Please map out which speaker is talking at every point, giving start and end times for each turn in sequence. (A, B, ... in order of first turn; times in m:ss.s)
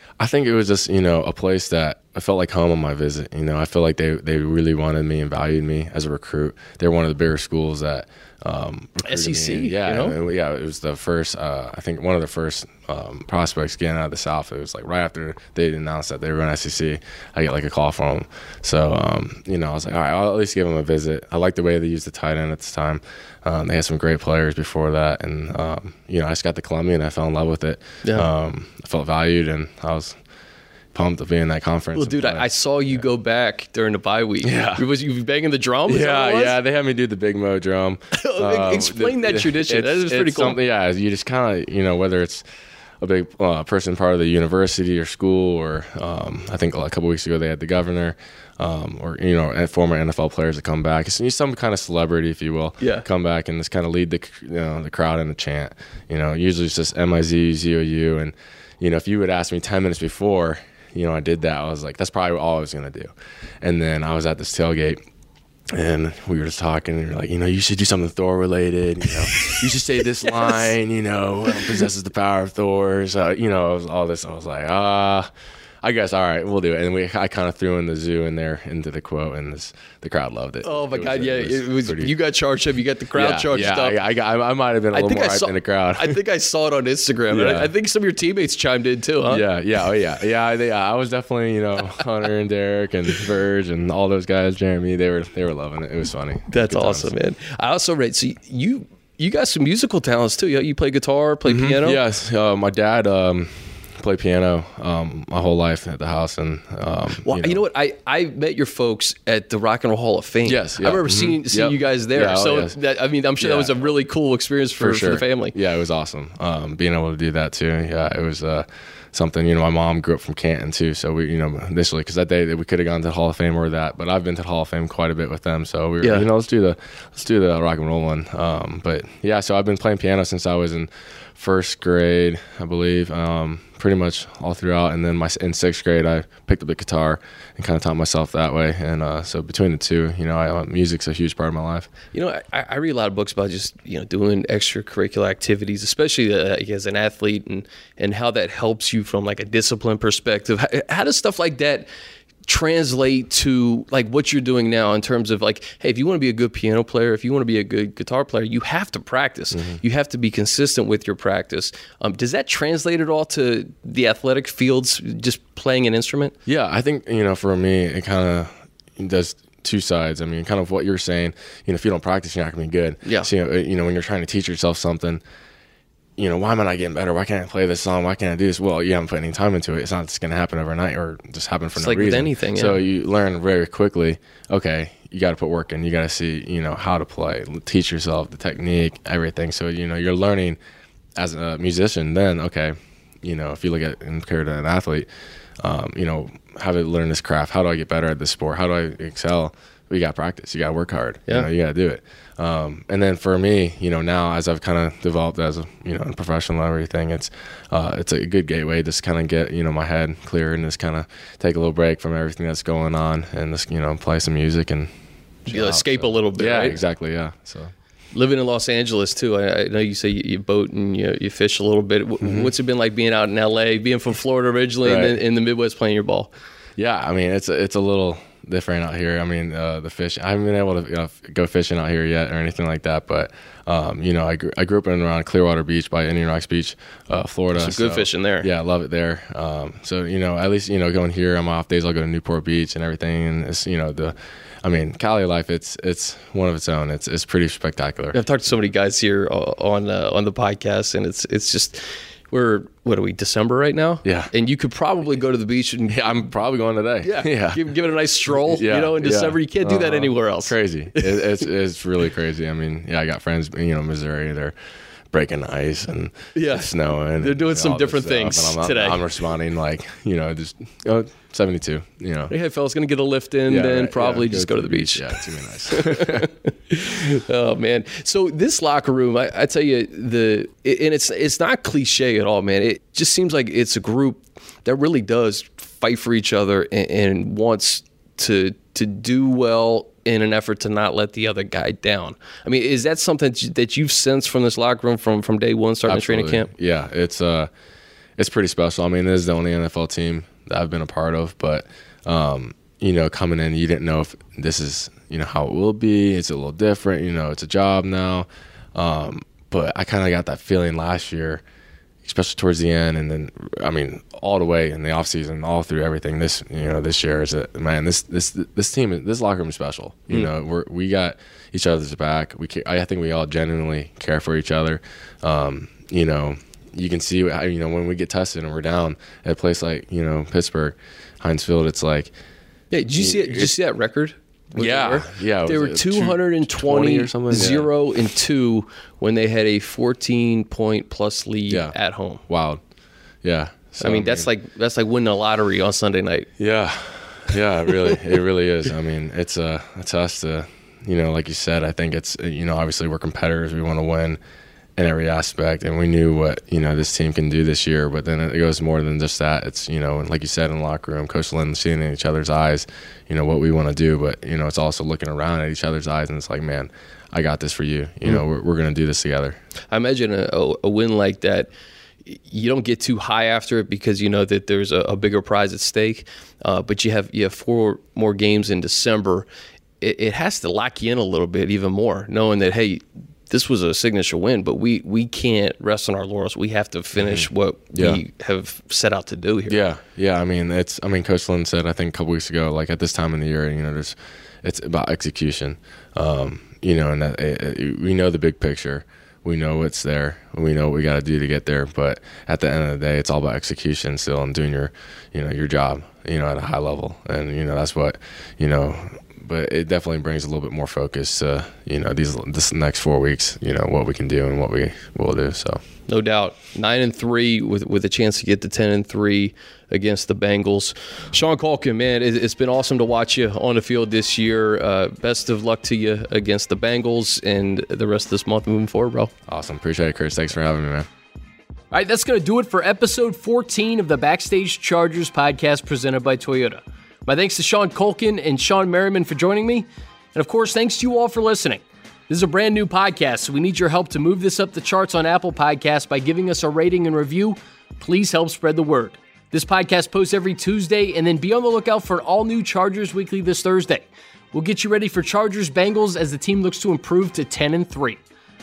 0:00.2-0:30.2 A
0:09.0-0:10.2 B
0:30.9-0:33.0 A
0:31.9-0:36.6 B
0:34.4-0:34.8 A
0:35.9-0:42.4 A
0:38.1-0:40.6 B
0:43.0-1:03.1 A
1:03.6-1:05.0 A
1:05.7-1:15.3 A
1:15.8-1:22.1 A
1:20.6-1:24.0 B
1:23.2-1:26.2 A
1:24.9-1:29.4 B
1:27.3-1:27.7 A
1:29.3-1:37.1 A
1:36.5-1:42.0 B
1:41.5-1:47.6 A
1:47.2-1:55.6 B
1:50.4-1:52.8 A
1:53.4-1:53.8 A
1:54.8-2:21.9 A
2:06.0-2:06.3 B
2:22.1-2:31.9 B
2:32.5-2:46.4 B
2:39.5-2:39.8 A
2:46.5-2:55.2 A
2:56.2-3:10.6 A
3:01.8-3:02.8 B
3:11.2-3:15.1 A
3:15.6-3:34.9 A
3:35.5-3:36.8 B
3:35.5-3:37.7 A
3:38.1-3:46.3 B
3:42.2-3:42.5 A
3:44.8-3:45.2 A
3:46.8-4:08.2 A
3:57.5-3:58.5 B
4:08.1-4:16.0 B
4:14.0-4:14.3 A
4:15.9-4:17.7 A
4:17.0-4:21.4 B
4:18.5-4:24.5 A
4:25.1-4:32.3 A
4:26.3-4:29.0 B
4:32.3-4:56.5 B
4:33.5-4:36.3 A
4:55.9-4:57.5 A
4:58.2-5:11.4 A
5:12.0-5:32.1 A
5:32.7-5:42.2 B
5:33.0-5:33.5 A
5:34.6-5:37.7 A
5:41.5-5:41.8 A
5:42.3-5:42.6 A
5:43.2-5:44.3 A
5:43.8-5:46.3 B
5:46.4-5:54.2 A
5:54.8-6:09.4 A
6:09.7-6:11.5 B
6:12.0-6:19.3 B
6:19.8-6:29.6 B
6:27.0-6:28.0 A
6:29.5-6:55.6 A
6:55.9-7:09.1 B
7:09.3-7:10.9 A
7:11.7-7:38.0 B